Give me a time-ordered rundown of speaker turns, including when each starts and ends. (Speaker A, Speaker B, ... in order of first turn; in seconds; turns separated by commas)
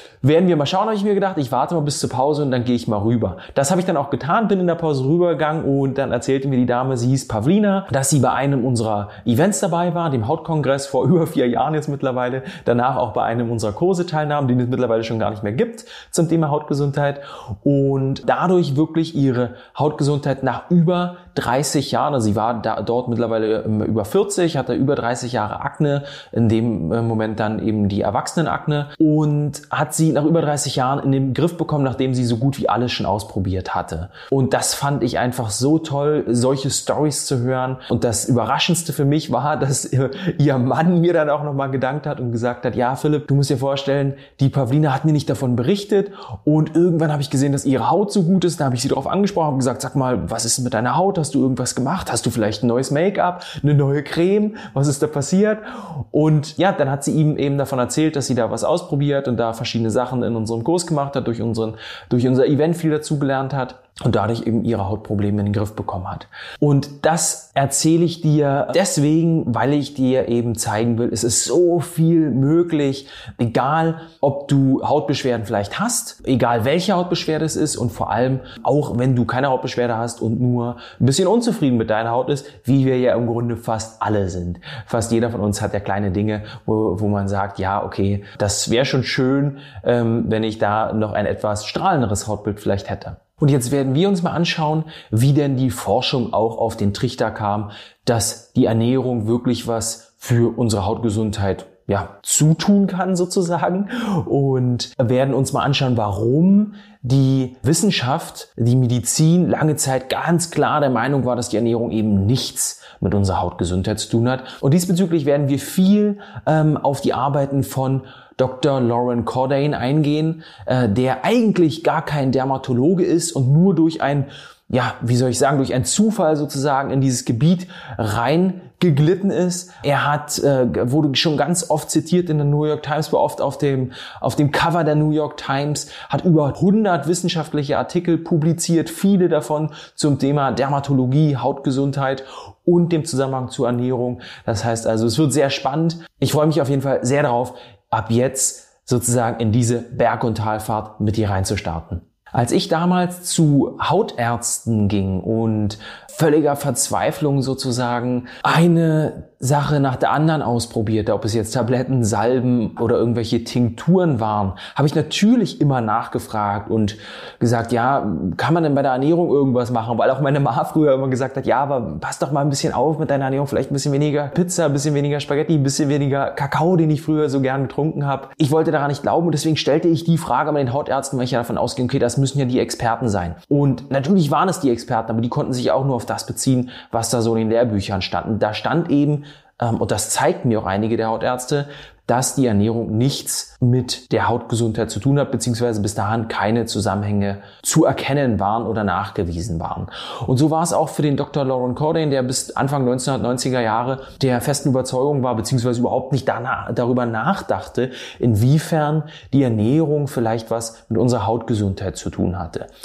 Speaker A: 0.2-212.7